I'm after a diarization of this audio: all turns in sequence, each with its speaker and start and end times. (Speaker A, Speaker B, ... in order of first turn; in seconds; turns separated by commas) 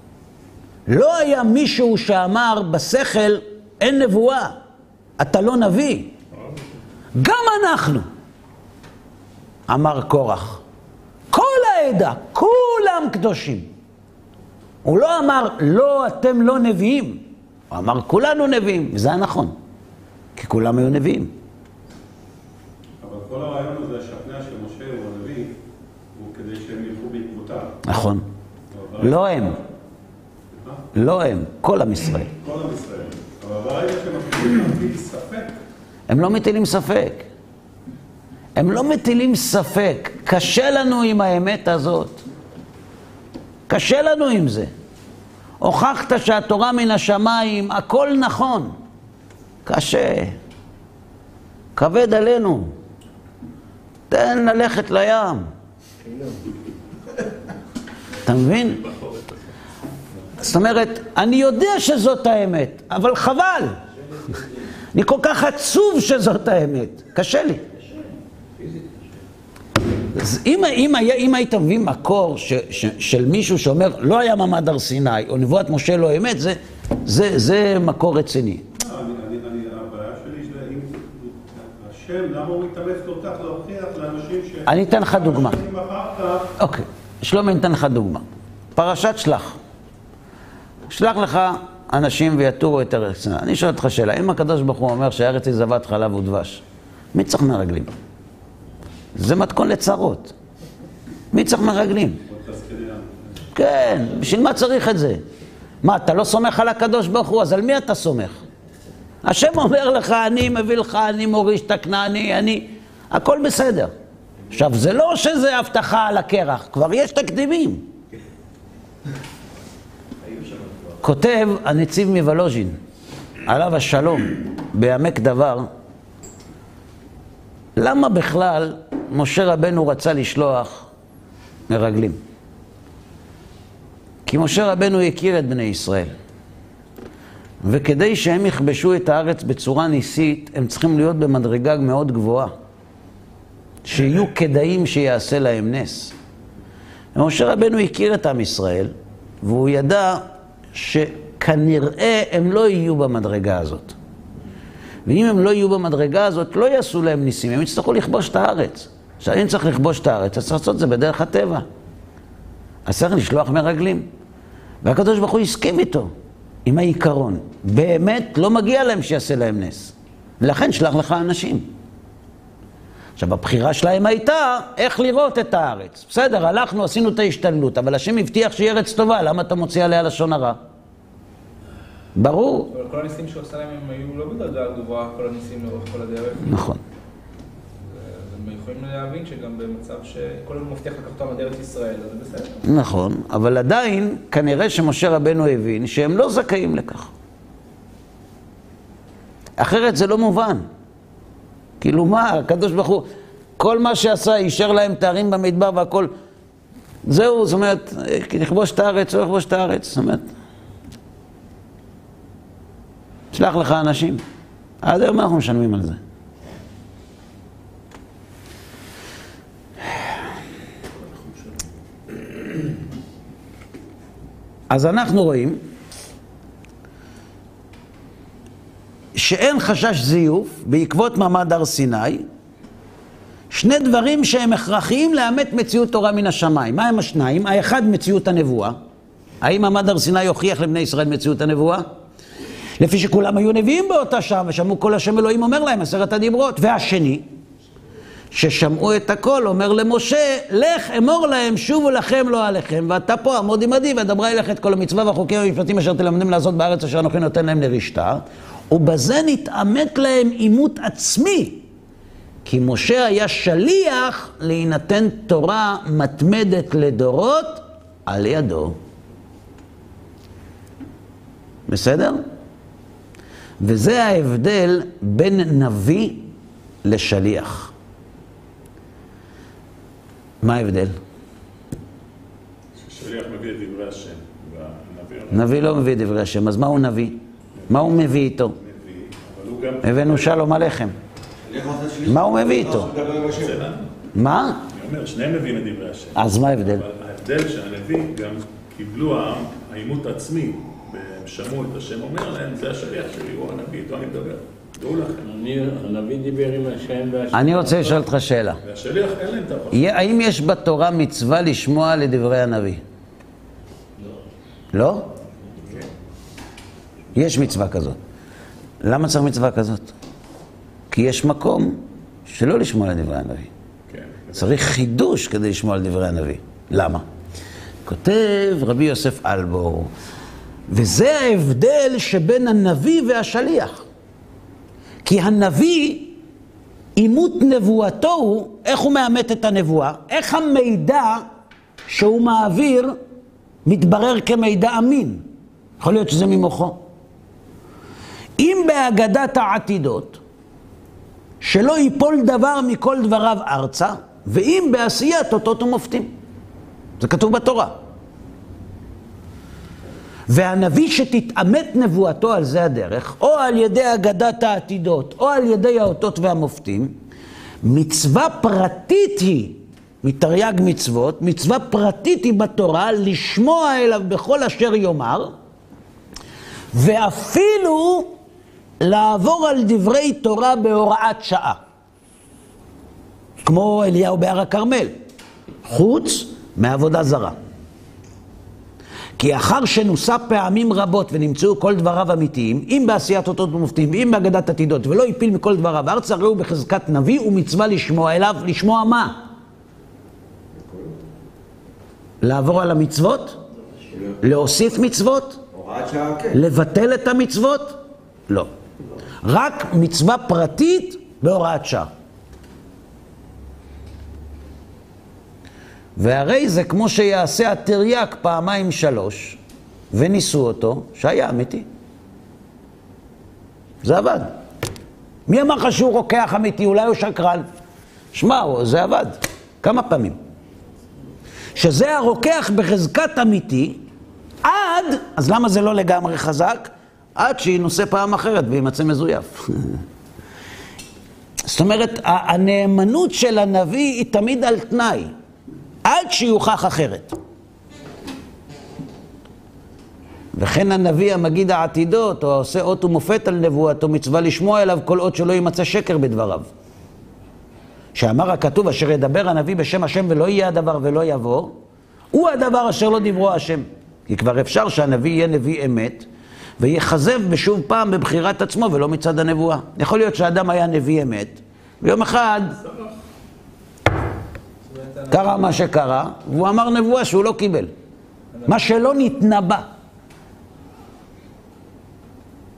Speaker A: 0.9-4.5, Speaker A: 5.2-6.1, Speaker A: 7.2-8.1, Speaker A: 9.7-10.6, Speaker A: 11.3-13.7, Speaker A: 14.8-19.5, Speaker A: 20.4-21.3, Speaker B: 23.0-25.6, Speaker B: 26.1-27.8, Speaker A: 27.8-28.2, Speaker B: 28.7-29.1, Speaker A: 29.0-29.6, Speaker A: 30.9-32.3, Speaker B: 32.4-35.6, Speaker A: 36.1-37.3, Speaker A: 38.5-42.2, Speaker A: 43.7-44.7, Speaker A: 45.6-48.7, Speaker A: 49.6-50.4, Speaker A: 51.8-52.7, Speaker A: 54.1-55.5, Speaker A: 58.2-58.8, Speaker C: 58.5-59.4, Speaker A: 60.4-63.8, Speaker A: 64.9-67.6, Speaker A: 70.1-78.6, Speaker B: 78.7-86.5, Speaker A: 84.7-85.6, Speaker A: 86.6-88.2, Speaker A: 88.8-89.6, Speaker A: 90.9-96.6, Speaker A: 97.1-97.9, Speaker A: 99.2-100.3, Speaker A: 101.3-102.2, Speaker B: 102.3-103.5, Speaker A: 103.5-105.2, Speaker A: 105.8-108.4, Speaker A: 109.2-113.9, Speaker A: 114.5-117.8, Speaker A: 121.0-122.8, Speaker A: 123.5-125.7, Speaker A: 127.8-130.9, Speaker A: 131.7-132.2, Speaker A: 134.2-136.1, Speaker A: 137.6-142.5, Speaker A: 143.8-146.1, Speaker A: 147.1-153.9, Speaker A: 155.0-161.6, Speaker A: 162.8-164.1, Speaker A: 164.8-166.1, Speaker A: 166.6-171.7, Speaker A: 173.2-180.6, Speaker A: 182.2-182.7, Speaker D: 182.7-186.6, Speaker A: 186.4-186.8, Speaker D: 187.9-192.6, Speaker A: 192.6-197.1, Speaker A: 199.6-200.7, Speaker A: 201.8-203.1, Speaker A: 203.6-206.1, Speaker A: 207.1-210.3, Speaker A: 213.3-214.2, Speaker A: 214.8-216.0, Speaker C: 221.1-221.4, Speaker A: 224.7-225.6, Speaker A: 229.2-232.2, Speaker A: 233.5-238.8, Speaker A: 239.4-241.9, Speaker A: 242.8-247.2, Speaker A: 248.3-261.6, Speaker A: 262.4-268.7, Speaker A: 271.7-272.2, Speaker A: 273.6-276.3, Speaker A: 276.8-277.7, Speaker A: 280.4-280.9, Speaker C: 282.8-285.7, Speaker A: 285.3-287.2, Speaker C: 287.7-288.0, Speaker A: 287.7-288.5, Speaker C: 288.6-290.5, Speaker A: 289.8-290.9, Speaker E: 291.4-293.6, Speaker A: 292.1-292.9, Speaker C: 292.8-293.9, Speaker A: 294.1-294.6, Speaker C: 294.7-305.3, Speaker A: 296.1-296.8, Speaker F: 305.2-308.0, Speaker A: 307.3-308.6, Speaker C: 308.6-309.9, Speaker A: 309.7-312.8, Speaker A: 314.7-315.1, Speaker A: 317.1-318.0, Speaker A: 318.8-319.9, Speaker A: 320.9-323.5, Speaker C: 323.9-324.5, Speaker A: 324.3-327.0, Speaker A: 327.8-329.9, Speaker A: 330.7-333.8, Speaker A: 335.0-336.2, Speaker A: 337.0-341.2, Speaker A: 341.9-342.9, Speaker A: 343.6-345.2, Speaker A: 345.8-346.8, Speaker A: 348.4-350.2, Speaker A: 351.4-356.1, Speaker A: 357.0-357.8, Speaker A: 360.3-366.9, Speaker A: 367.6-375.3, Speaker A: 376.7-378.1, Speaker A: 378.8-381.6, Speaker A: 383.4-384.9, Speaker A: 385.6-387.4, Speaker A: 389.2-399.2, Speaker A: 402.2-403.4, Speaker A: 404.2-405.4, Speaker E: 405.5-406.4, Speaker A: 406.3-408.5, Speaker A: 409.2-411.9, Speaker A: 416.0-419.4, Speaker A: 419.9-421.6, Speaker A: 423.8-424.3, Speaker A: 425.3-427.4, Speaker A: 428.1-430.2, Speaker A: 431.6-433.8, Speaker A: 434.4-439.8, Speaker A: 441.4-445.1, Speaker A: 445.8-447.1, Speaker A: 450.3-456.5, Speaker A: 457.9-461.5, Speaker A: 462.1-466.1, Speaker A: 466.6-472.6, Speaker C: 472.6-472.9, Speaker D: 474.6-475.5, Speaker A: 475.1-477.7, Speaker A: 478.5-479.7